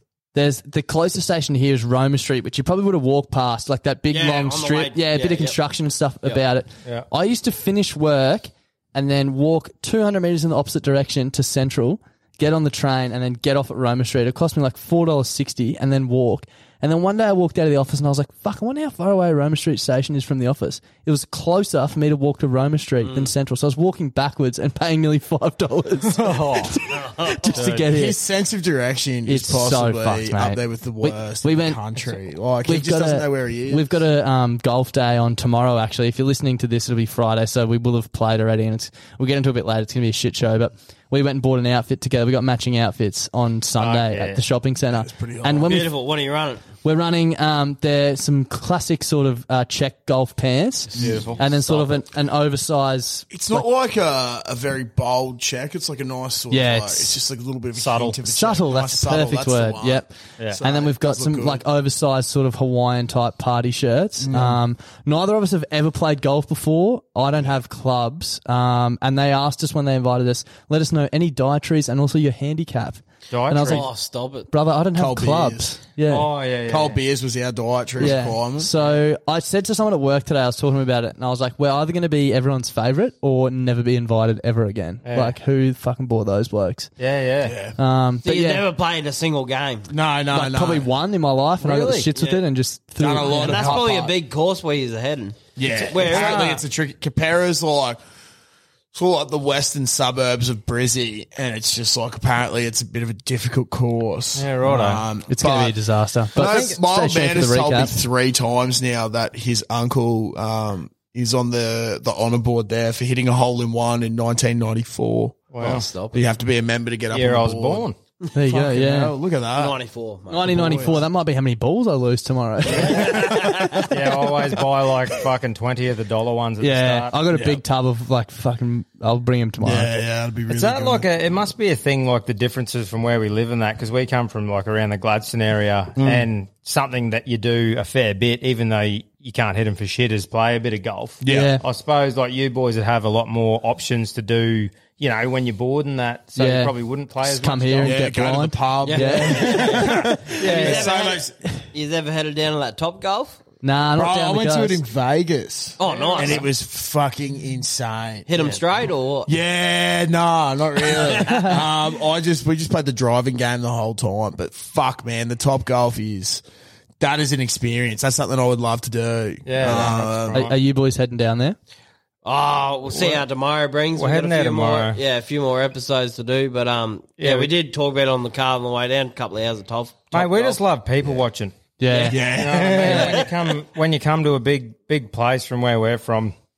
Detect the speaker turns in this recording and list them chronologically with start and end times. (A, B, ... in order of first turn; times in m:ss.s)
0:00.3-0:28.2 A
0:04.1-0:05.6 B
0:23.0-0:23.3 B
0:26.2-0:26.7 C
0:27.5-0:34.0 D
0:29.2-0:32.0 A
0:32.6-0:46.0 A
0:43.8-0:44.4 C
0:44.9-0:45.7 D
0:45.6-0:46.7 B
0:46.7-0:53.7 A
0:51.0-0:51.3 D
0:51.0-0:51.4 C
0:53.3-1:01.6 D
0:56.5-0:57.2 A
0:57.8-0:58.2 C
0:58.2-1:16.3 A
1:04.2-1:04.6 D
1:13.3-1:13.9 C
1:13.6-1:14.5 B
1:14.9-1:15.8 D
1:16.1-1:17.0 C
1:16.7-1:18.7 D
1:18.0-1:26.9 A
1:25.0-1:25.4 C
1:27.0-1:27.6 C
1:27.4-1:27.8 D
1:27.8-1:28.7 A
1:28.2-1:29.9 B
1:29.9-1:30.9 D
1:30.3-1:34.1 A
1:31.6-1:32.0 C
1:31.8-1:32.4 B
1:33.0-1:34.1 D
1:33.2-1:36.5 B
1:35.6-1:38.0 D
1:36.0-1:36.6 C
1:38.9-1:45.8 D
1:44.4-1:45.0 C
1:45.3-1:47.9 A
1:46.4-1:57.9 D
1:46.4-1:46.8 C
1:55.5-1:55.9 C
1:55.6-1:56.2 B
1:57.1-1:58.0 C
1:58.3-1:59.1 A
1:58.4-1:59.8 D
1:59.5-2:01.0 B
2:00.3-2:03.8 A
2:00.4-2:01.0 D
2:02.8-2:03.6 B
2:03.9-2:07.2 C
2:06.6-2:09.9 A
2:07.3-2:07.6 D
2:09.6-2:11.1 D
2:10.5-2:28.0 C
2:16.0-2:16.3 D
2:21.2-2:21.5 D
2:21.3-2:21.6 A
2:26.4-2:26.7 A
2:27.3-2:30.0 A
2:27.8-2:31.4 D
2:28.8-2:33.4 B
2:30.4-2:30.9 C
2:33.6-2:34.8 A
2:34.0-2:38.6 D
2:35.8-2:36.5 B
2:38.3-2:39.3 B
2:39.2-2:46.4 D
2:40.9-2:41.5 B
2:47.0-2:50.4 D
2:49.4-2:50.6 C
2:50.3-2:51.6 A
2:52.2-3:00.6 B
2:54.0-2:55.0 C
2:57.2-2:57.5 C
3:00.1-3:01.5 C
3:01.8-3:02.2 A
3:02.1-3:03.2 D
3:02.1-3:06.3 C
3:02.8-3:03.2 B